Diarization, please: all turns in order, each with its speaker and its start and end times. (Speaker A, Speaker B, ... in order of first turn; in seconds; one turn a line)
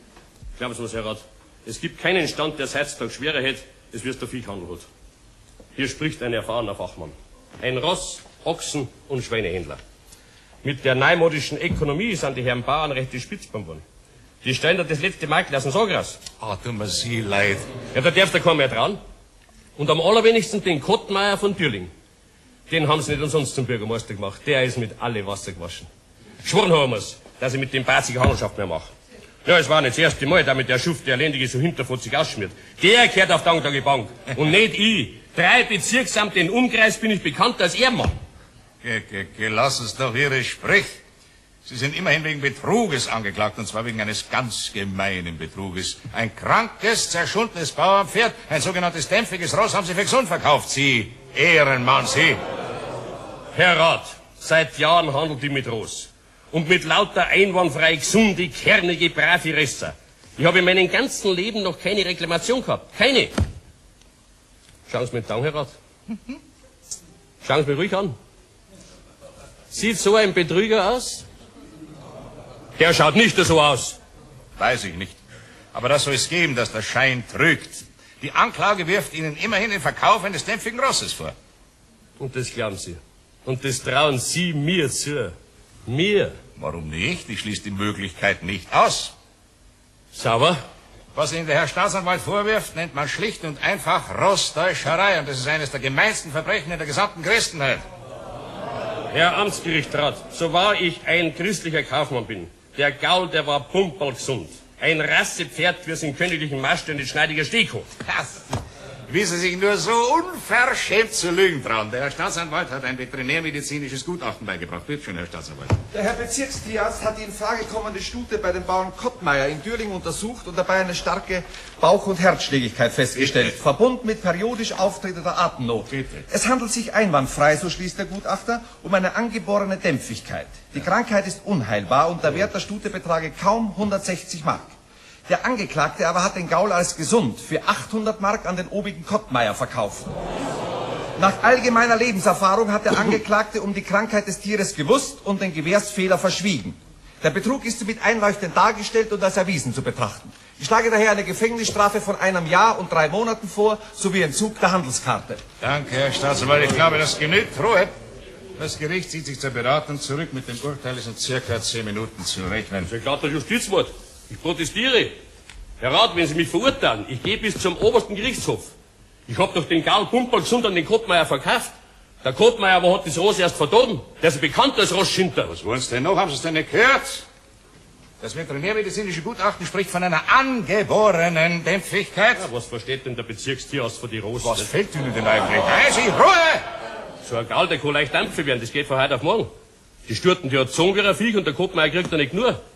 Speaker A: 0.6-4.9
Speaker A: 5.8-9.8
Speaker A: 10.6-13.8
Speaker A: 14.4-16.2
Speaker B: 16.4-17.7
Speaker A: 17.9-19.0
Speaker A: 19.8-21.9
Speaker A: 22.7-25.9
Speaker A: 26.4-28.9
Speaker A: 29.4-38.2
Speaker B: 38.8-41.0
Speaker B: 41.6-52.4
Speaker A: 53.5-63.4
Speaker A: 64.9-65.7
Speaker A: 67.4-68.2
Speaker A: 69.7-71.2
Speaker A: 72.8-74.0
Speaker B: 74.6-75.2
Speaker B: 75.7-81.3
Speaker A: 82.2-86.4
Speaker B: 86.6-89.1
Speaker A: 90.1-90.6
Speaker B: 91.1-97.8
Speaker A: 99.1-107.9
Speaker B: 108.1-108.4
Speaker B: 109.1-115.8
Speaker C: 115.9-134.8
Speaker B: 123.2-123.4
Speaker B: 125.9-126.2
Speaker C: 135.3-140.1
Speaker C: 141.2-155.4
Speaker B: 155.6-157.9
Speaker B: 158.6-162.9
Speaker A: 162.9-165.2
Speaker A: 165.8-168.7
Speaker A: 169.3-175.5
Speaker B: 175.5-177.2
Speaker B: 178.2-182.4
Speaker A: 182.3-184.7
Speaker B: 184.4-186.6
Speaker A: 187.2-189.5
Speaker A: 190.1-192.6